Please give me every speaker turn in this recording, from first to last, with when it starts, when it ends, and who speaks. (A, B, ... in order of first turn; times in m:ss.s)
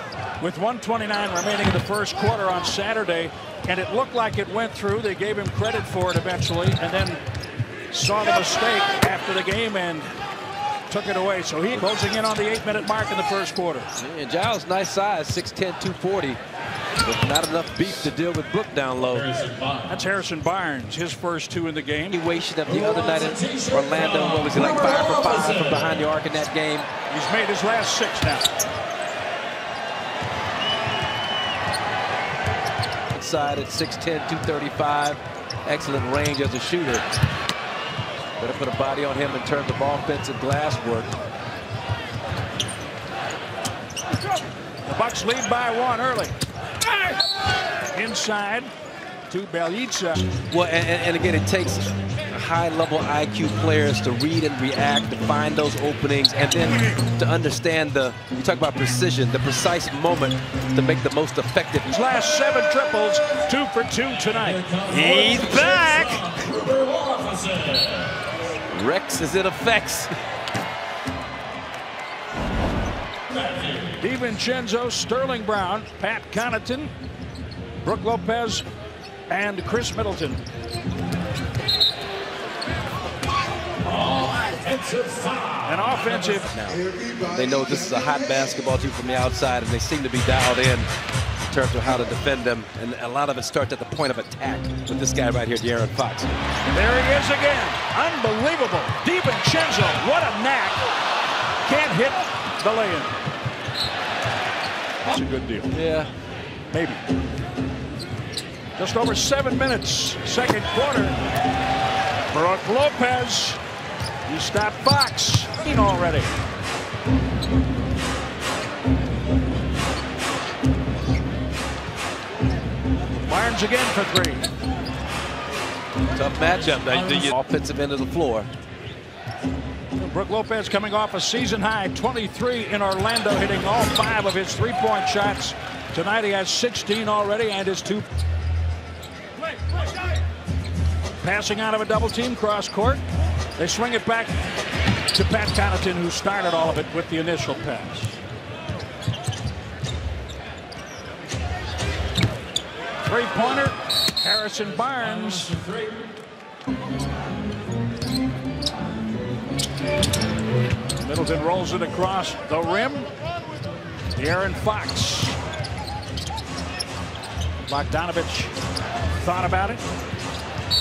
0:00.4-0:07.2 A
0:07.9-0:10.1 A
0:10.9-0:13.9 A
0:14.0-0:16.4 B
0:17.0-0:19.4 B
0:19.8-0:22.2 A
0:22.1-0:26.9 B
0:27.1-0:28.5 A
0:33.1-0:37.0 B
0:38.4-0:41.1 B
0:44.8-0:46.4 A
0:47.9-0:48.7 A
0:49.3-0:50.3 A
0:50.4-1:01.9 B
1:01.9-1:04.8 A
1:04.8-1:06.6 B
1:08.7-1:10.1 B
1:14.0-1:16.9 A
1:17.8-1:18.6 A
1:19.3-1:20.4 A
1:25.6-1:26.5 A
1:26.5-1:30.9 B
1:31.5-1:36.3 B
1:36.7-1:40.8 A
1:41.6-1:43.1 A
1:45.0-1:45.7 A
1:45.7-1:46.1 B
1:46.7-1:47.0 A
1:48.8-1:51.2 A
1:52.3-1:53.6 A
1:54.2-1:56.3 A
2:03.2-2:04.5 A
2:06.1-2:08.5 B
2:09.9-2:18.1 A
2:21.2-2:23.0 A
2:23.6-2:24.4 A
2:25.1-2:28.2 A
2:33.0-2:35.6 A
2:41.0-2:43.1 A
2:44.1-2:45.4 A
2:47.7-2:48.5 A
2:49.2-2:49.8 A